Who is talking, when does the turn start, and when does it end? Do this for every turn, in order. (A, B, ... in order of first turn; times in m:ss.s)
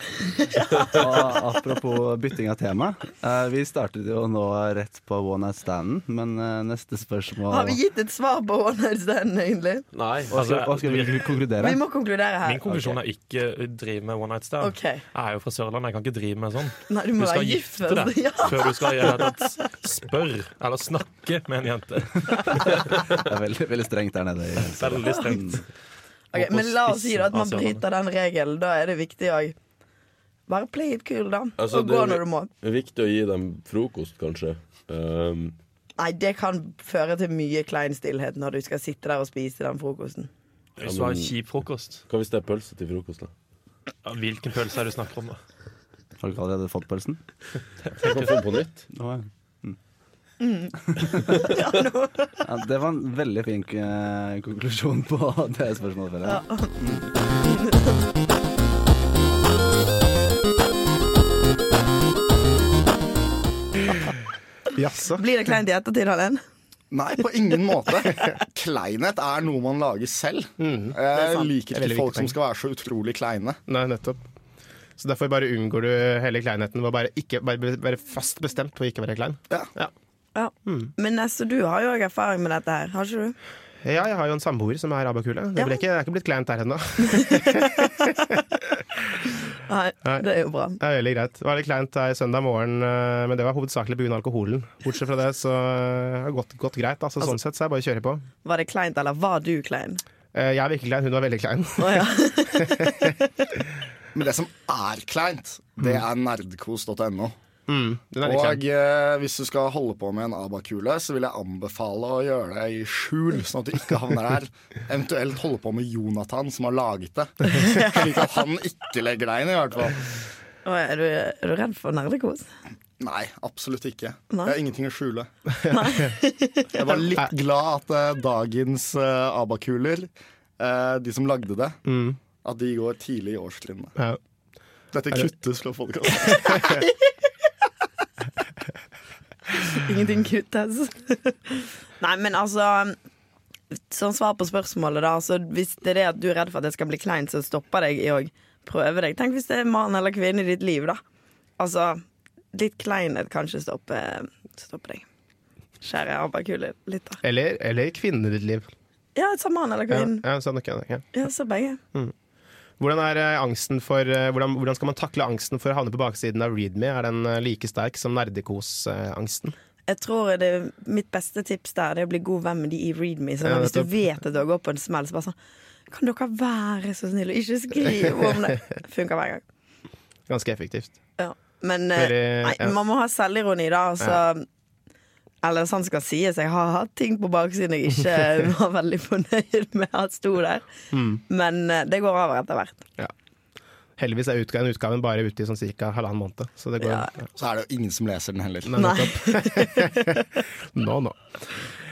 0:00.4-0:01.0 A
0:00.9-0:07.8 B
0:07.5-0:09.8 A
0:09.9-0:10.3 C
0:10.3-0:11.8 B
0:10.3-0:11.4 D
0:11.6-0:12.6 A
0:12.4-0:22.8 D
0:12.7-0:13.0 B
0:14.6-0:15.0 A
0:16.9-0:19.3 A
0:22.8-0:25.6 B
0:24.8-0:25.6 D
0:26.3-0:29.5 A
0:26.3-0:27.8 D
0:30.5-0:32.5 A
0:31.6-0:35.6 C
0:36.0-0:40.3 A
0:40.8-0:42.0 D
0:40.8-0:41.3 C
0:42.1-0:43.3 C
0:44.0-0:45.4 D
0:46.2-0:47.2 B
0:48.0-0:48.3 D
0:48.0-0:48.8 C
0:48.9-0:49.8 B
0:50.4-0:50.7 A
0:51.3-0:52.4 A
0:52.4-0:57.1 B
0:56.2-0:56.8 A
0:57.4-0:58.0 A
1:04.7-1:05.2 E
1:05.1-1:06.4 A
1:06.9-1:13.6 F
1:10.6-1:11.0 E
1:11.2-1:11.4 A
1:11.7-1:12.4 E
1:13.7-1:14.2 E
1:15.0-1:19.9 E
1:20.3-1:23.4 A
1:20.6-1:20.9 E
1:23.8-1:28.7 E
1:27.1-1:27.9 A
1:29.6-1:30.8 A
1:30.8-1:38.2 E
1:38.4-1:40.0 A
1:40.3-1:43.2 E
1:41.8-1:42.8 A
1:44.1-1:47.3 F
1:45.8-1:46.0 E
1:47.7-1:48.6 E
1:48.2-2:00.1 F
1:57.5-1:58.0 A
2:00.6-2:02.5 A
2:03.0-2:05.3 F
2:05.6-2:06.1 E
2:05.7-2:06.8 A
2:06.7-2:11.8 F
2:11.8-2:12.2 E
2:12.4-2:13.9 F
2:14.9-2:16.8 F
2:19.7-2:23.0 A
2:23.7-2:31.0 A
2:31.6-2:32.0 A
2:32.5-2:35.0 A
2:35.8-2:37.2 A
2:37.2-2:38.7 E
2:39.1-2:40.2 A
2:39.9-2:41.0 E
2:41.1-2:41.8 A
2:42.8-2:49.5 E
2:49.9-2:55.3 A
2:53.4-2:54.0 E
2:55.9-2:59.4 A
3:00.3-3:00.9 E
3:01.2-3:04.4 A
3:02.0-3:02.7 E
3:05.4-3:10.6 A
3:10.9-3:11.2 E
3:11.3-3:12.8 A
3:14.0-3:17.3 E
3:16.8-3:17.1 A
3:17.3-3:18.9 F
3:18.6-3:21.6 E
3:18.8-3:20.1 A